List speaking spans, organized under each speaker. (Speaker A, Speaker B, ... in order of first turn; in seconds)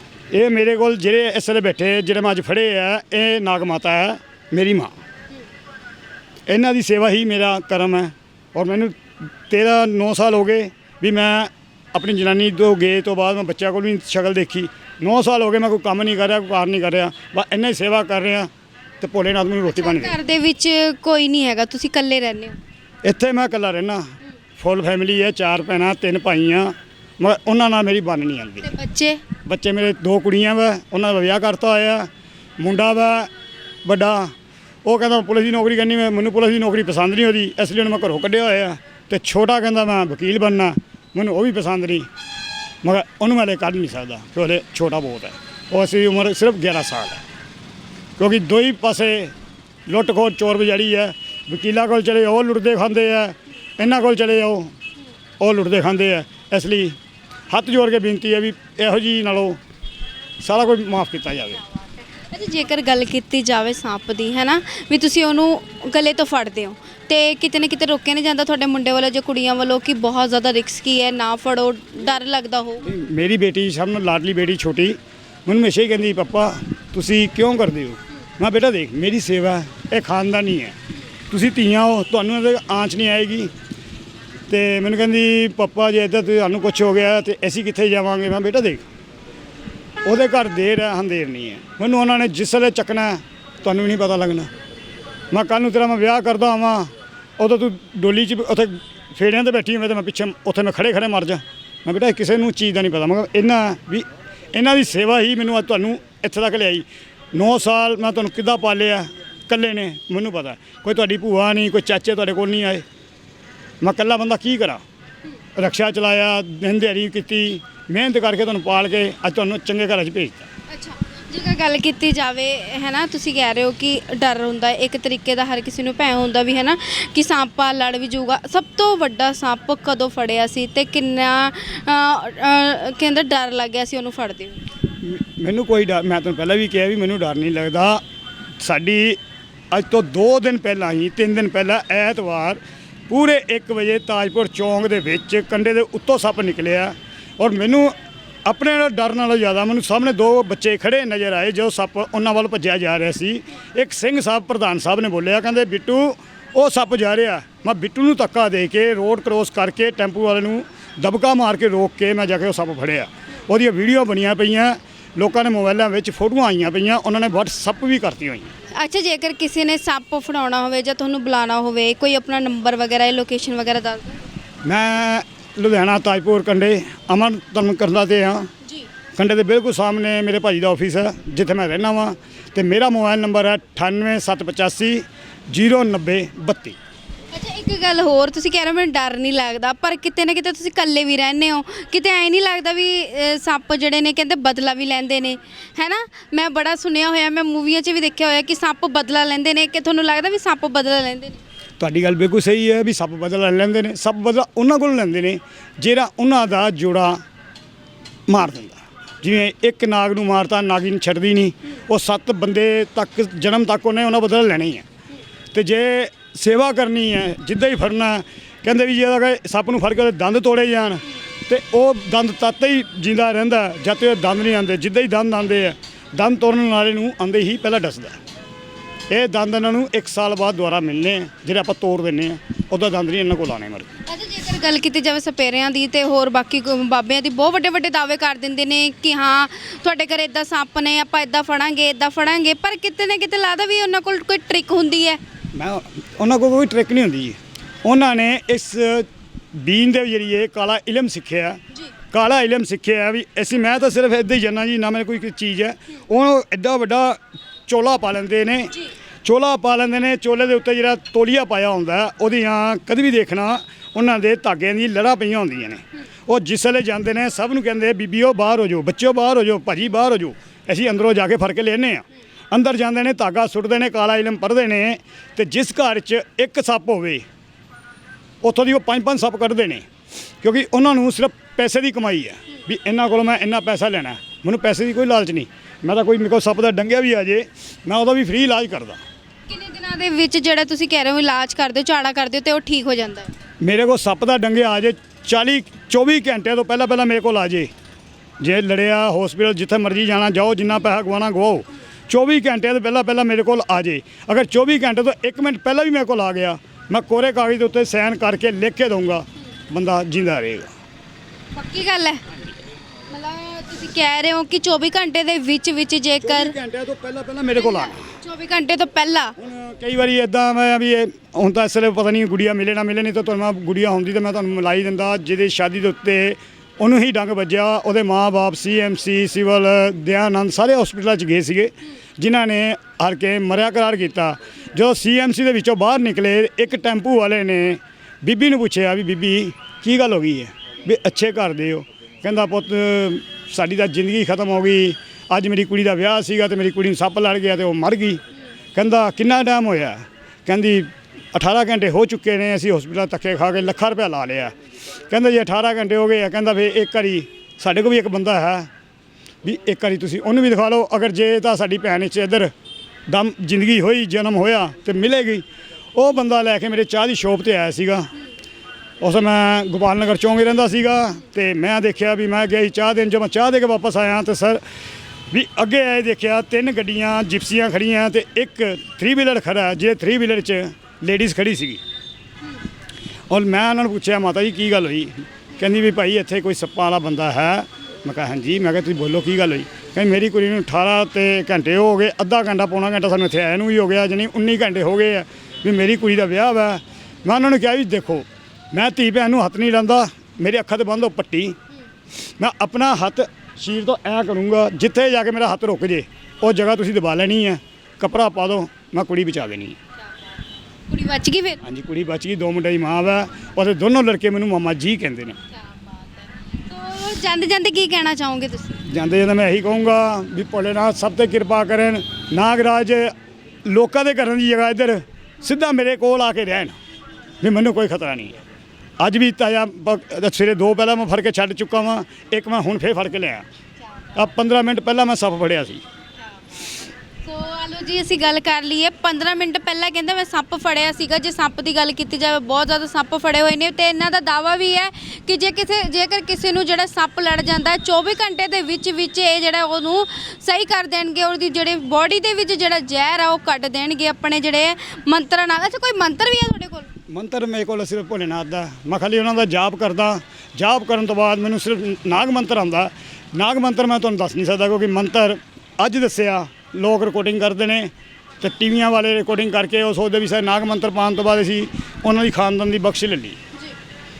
Speaker A: 0.3-5.0, 6.5-20.2, 23.0-28.7, 29.4-33.3, 33.9-34.3, 34.9-42.1, 42.8-47.2, 48.2-49.4, 49.9-54.7, 55.4-57.0, 57.5-59.6, 60.4-61.6, 72.8-80.8, 81.3-83.5, 84.5-88.9, 90.0-94.5, 95.3-112.8, 113.8-114.8, 115.6-120.5, 135.0-138.0, 138.6-139.2, 139.7-147.9, 148.5-168.5, 174.7-178.5, 179.2-186.8, 201.8-207.2, 208.3-214.8, 215.5-228.2, 229.1-233.9, 245.5-251.6, 252.1-277.2, 278.4-279.9, 280.4-289.0, 293.6-297.7, 298.4-310.7, 316.2-318.0, 319.4-348.2, 348.8-354.5, 355.1-358.7, 359.4-362.5, 363.1-365.4, 365.9-368.1, 369.0-374.6, 375.3-381.8, 383.3-401.6, 402.4-409.8, 411.6-415.4, 418.9-423.1, 423.6-426.8, 427.4-428.4, 429.0-433.4, 434.1-435.8, 457.1-473.4
Speaker B: 19.7-22.6, 28.6-29.2, 62.3-72.9, 120.7-134.6, 168.8-174.2, 187.3-201.4, 234.1-245.2, 289.5-293.3, 311.5-312.2, 313.1-316.6, 317.6-319.4, 410.9-411.6, 415.6-418.8, 437.2-456.9